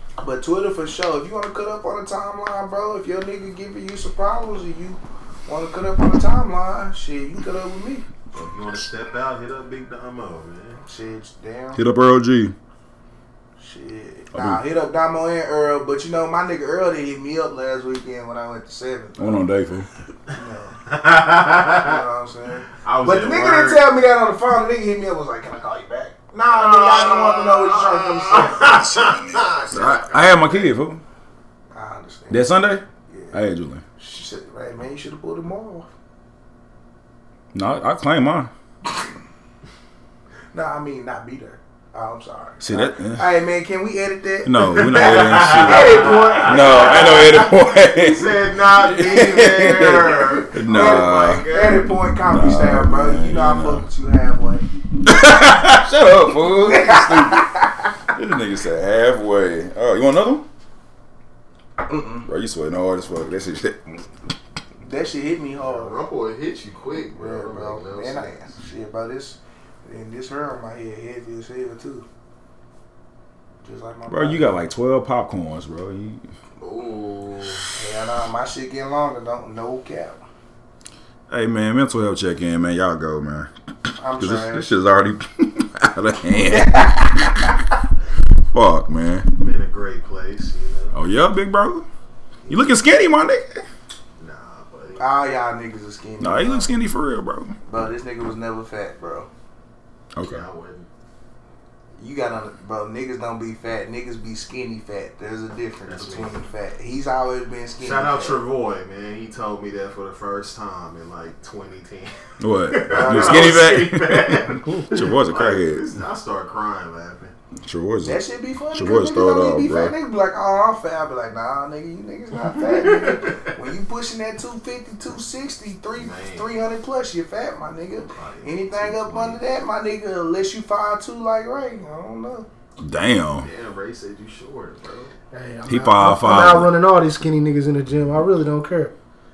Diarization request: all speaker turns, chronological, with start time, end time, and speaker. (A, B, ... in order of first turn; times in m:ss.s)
0:00.2-0:08.1 A
0:08.3-0:10.8 B
0:10.8-0:11.8 A
0:11.8-0:12.6 C
0:13.6-0:19.4 A
0:14.3-0:14.6 C
0:19.2-0:19.9 C
0:20.3-0:20.8 A
0:20.9-0:22.0 B
0:21.7-0:28.9 A
0:22.8-0:23.8 B
0:26.5-0:30.6 B
0:29.7-0:31.0 C
0:31.7-0:33.4 A
0:32.3-0:33.8 C
0:34.0-0:35.9 A
0:37.5-0:38.5 C
0:40.5-0:47.5 A
0:42.6-0:43.3 C
0:44.5-0:51.5 C
0:44.8-0:51.9 B
0:50.6-0:54.6 A
0:52.3-0:53.8 C
0:55.0-0:57.5 C
0:56.6-0:57.7 A
0:58.1-1:00.5 C
1:01.8-1:02.3 A
1:02.3-1:04.0 C
1:04.8-1:06.0 A
1:05.6-1:08.5 B
1:07.1-1:12.1 A
1:13.6-1:14.6 A
1:14.1-1:16.2 C
1:16.6-1:17.6 B
1:17.7-1:20.2 A
1:21.3-1:23.5 C
1:24.0-1:24.7 A
1:24.2-1:27.2 C
1:26.5-1:27.4 A
1:28.5-1:29.3 C
1:29.4-1:31.0 B
1:30.9-1:31.8 C
1:32.5-1:33.6 C
1:34.2-1:35.1 B
1:35.0-1:36.7 A
1:36.2-1:37.6 C
1:37.7-1:39.3 A
1:40.2-1:40.4 C
1:40.2-1:40.9 B
1:42.0-1:48.4 A
1:45.9-1:46.4 B
1:47.8-1:52.1 B
1:52.4-1:55.9 C
1:52.7-1:57.3 B
1:52.9-1:53.6 A
1:57.6-1:58.2 C
1:58.0-2:12.5 A
1:58.7-1:59.9 C
2:02.6-2:03.5 B
2:06.0-2:06.6 B
2:08.0-2:09.4 B
2:12.8-2:13.5 C
2:13.4-2:15.1 B
2:15.3-2:19.0 D
2:15.7-2:16.7 C